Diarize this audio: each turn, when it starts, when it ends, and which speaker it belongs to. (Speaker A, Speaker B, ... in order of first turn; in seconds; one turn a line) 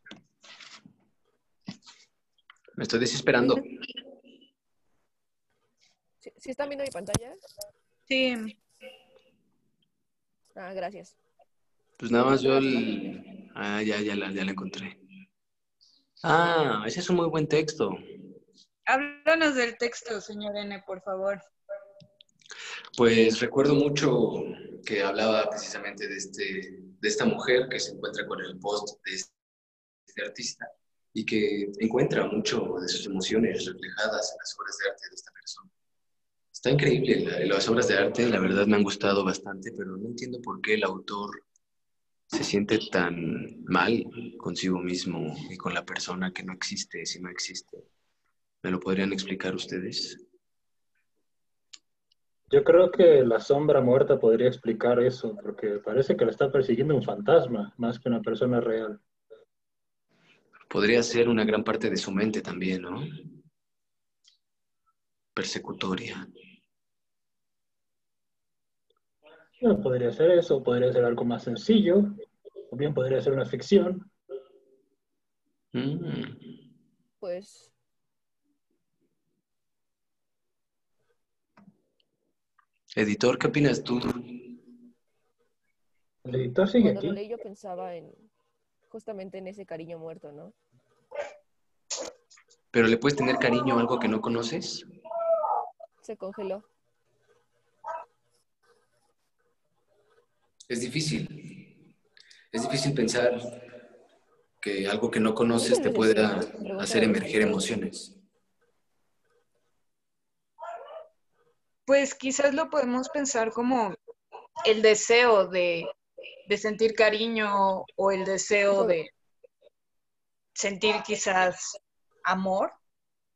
Speaker A: 2.8-3.6
Speaker B: 6.2-7.4
Speaker C: 8.1-8.5
Speaker B: 10.6-11.2
Speaker A: 12.0-15.0
Speaker A: 16.2-18.0
Speaker C: 18.9-21.4
Speaker A: 23.0-29.3
Speaker A: 30.1-35.7
Speaker A: 36.5-41.4
Speaker A: 42.3-47.9
Speaker A: 48.6-50.2
Speaker D: 52.5-59.0
Speaker A: 60.7-63.1
Speaker A: 65.3-66.3
Speaker D: 69.6-72.1
Speaker D: 72.7-74.1
Speaker A: 75.7-76.4
Speaker B: 77.2-77.7
Speaker A: 82.9-84.4
Speaker D: 86.2-87.2
Speaker B: 86.8-88.2
Speaker B: 88.9-90.5
Speaker A: 92.7-94.8
Speaker B: 96.0-96.7
Speaker A: 100.7-101.7
Speaker A: 102.5-103.4
Speaker A: 104.6-108.1
Speaker B: 105.6-107.7
Speaker C: 111.8-114.0
Speaker C: 114.6-115.9
Speaker C: 116.5-119.1
Speaker C: 120.5-122.7